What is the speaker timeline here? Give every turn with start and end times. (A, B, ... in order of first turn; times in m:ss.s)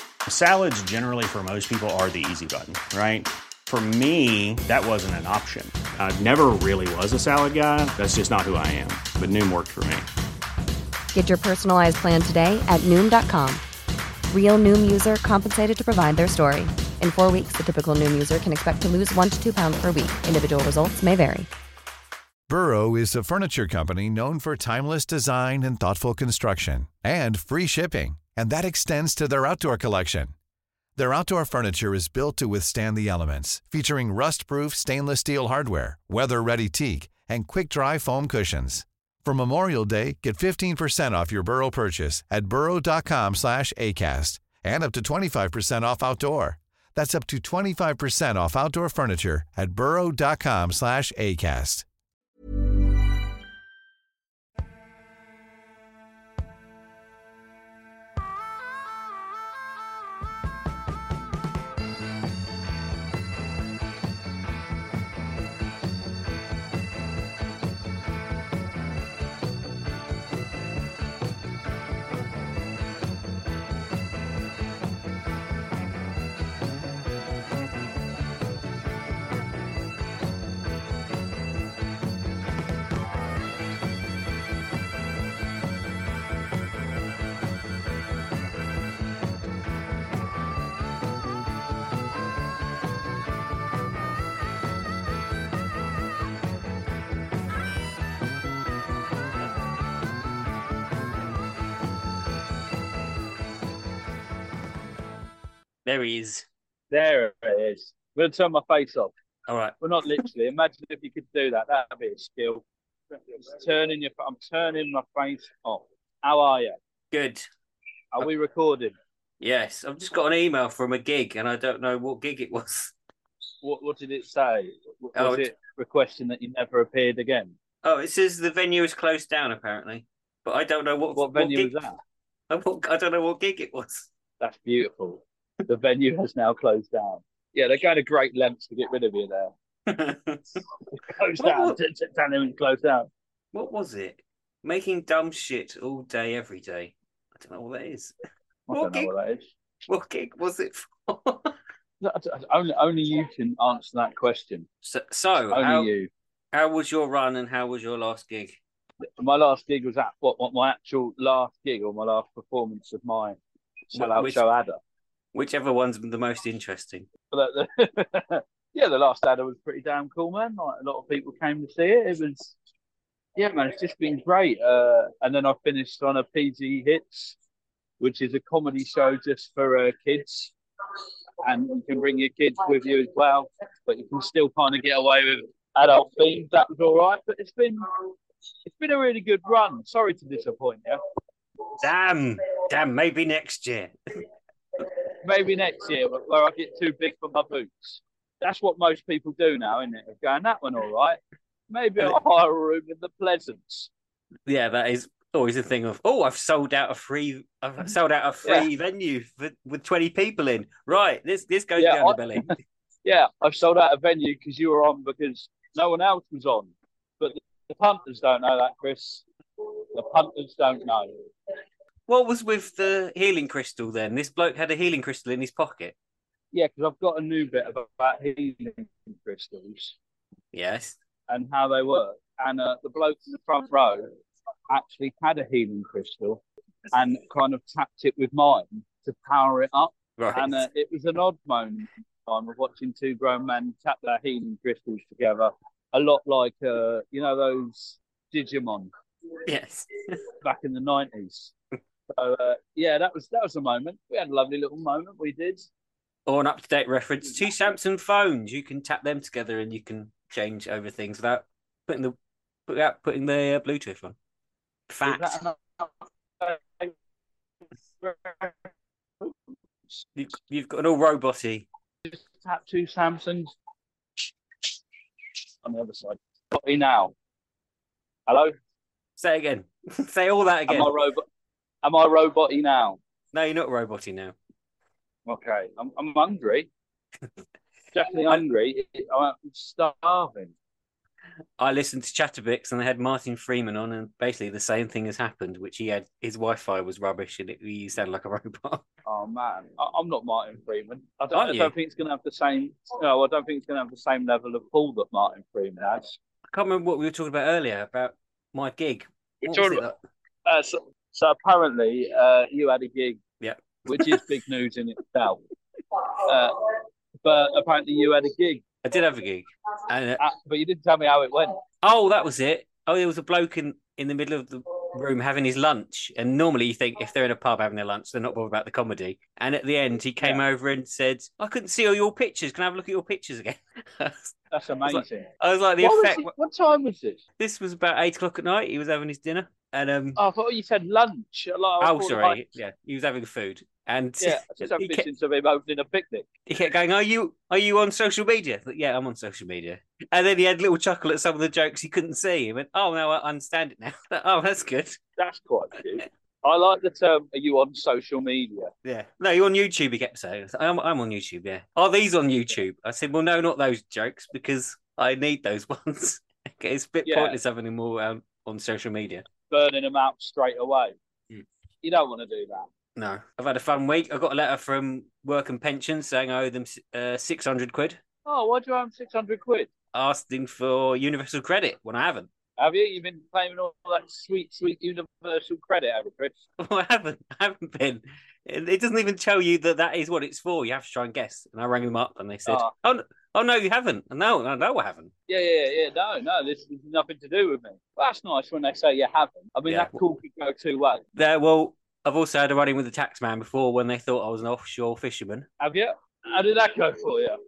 0:00.2-0:10.1 A
0:11.1-0:13.6 B
0:14.3-0:21.5 B
0:22.5-0:30.3 C
0:31.0-0:51.8 C
1:45.8-1:46.4 D
1:46.9-1:49.1 E
1:49.5-1:49.8 D
1:49.8-1:52.6 E
1:53.3-1:56.8 E
1:57.1-1:57.4 D
1:58.1-1:59.0 E
1:59.4-2:02.9 D
2:03.6-2:07.5 E
2:05.2-2:05.4 D
2:07.8-2:11.7 D
2:11.2-2:12.0 E
2:12.5-2:14.1 D
2:14.4-2:19.5 E
2:19.9-2:20.6 D
2:21.0-2:23.1 E
2:21.4-2:21.8 D
2:23.5-2:28.1 D
2:28.7-2:29.5 E
2:28.7-2:29.1 D
2:29.9-2:31.5 D
2:32.0-2:34.7 E
2:34.8-2:35.9 D
2:35.5-2:36.1 E
2:36.5-2:38.6 D
2:39.2-2:43.4 E
2:43.9-2:44.8 E
2:43.9-2:44.4 D
2:45.3-2:47.0 D
2:47.3-2:52.5 E
2:53.4-2:57.4 E
2:58.0-3:00.5 E
3:01.4-3:07.8 E
3:08.6-3:11.0 E
3:11.8-3:13.9 D
3:15.2-3:21.2 E
3:21.7-3:23.9 E
3:24.5-3:32.6 D
3:31.8-3:32.4 E
3:33.0-3:39.2 E
3:39.9-3:41.2 E
3:42.1-3:45.9 D
3:46.5-3:49.9 E
3:50.5-3:51.0 D
3:51.3-3:54.1 E
3:54.7-3:56.4 E
3:56.9-4:08.9 E
4:00.2-4:00.6 D
4:09.4-4:10.2 D
4:10.4-4:11.5 E
4:12.1-4:15.7 E
4:16.3-4:22.1 D
4:22.7-4:24.1 D
4:24.9-4:25.4 D
4:25.0-4:26.9 E
4:28.0-4:28.7 E
4:30.2-4:31.7 D
4:32.0-4:33.5 E
4:35.6-4:37.1 E
4:38.3-4:38.5 E
4:39.2-4:40.9 D
4:40.7-4:41.2 E
4:41.8-4:43.0 E
4:43.3-4:44.3 D
4:45.3-4:46.7 E
4:47.9-4:50.5 E
4:51.6-4:58.8 D
4:59.0-5:06.2 E
5:01.3-5:01.7 D
5:06.5-5:10.0 D
5:09.4-5:09.9 E
5:10.4-5:13.2 E
5:13.4-5:14.3 D
5:13.9-5:15.4 E
5:16.2-5:18.6 E
5:18.8-5:20.2 D
5:20.2-5:21.6 E
5:21.8-5:36.3 D
5:34.5-5:35.3 E
5:35.8-5:37.2 E
5:37.4-5:40.2 D
5:40.2-5:42.4 E
5:41.8-5:45.0 D
5:44.2-5:46.3 E
5:46.5-5:55.0 D
5:55.2-5:58.7 E
5:58.8-6:09.2 D
6:07.0-6:07.4 E
6:09.5-6:10.9 E
6:11.8-6:12.7 E
6:13.0-6:18.0 D
6:18.2-6:19.7 E
6:19.9-6:22.3 D
6:22.6-6:26.3 E
6:26.6-6:35.1 D
6:35.3-6:41.0 E
6:39.7-6:40.0 D
6:41.2-6:45.5 D
6:45.6-6:47.4 E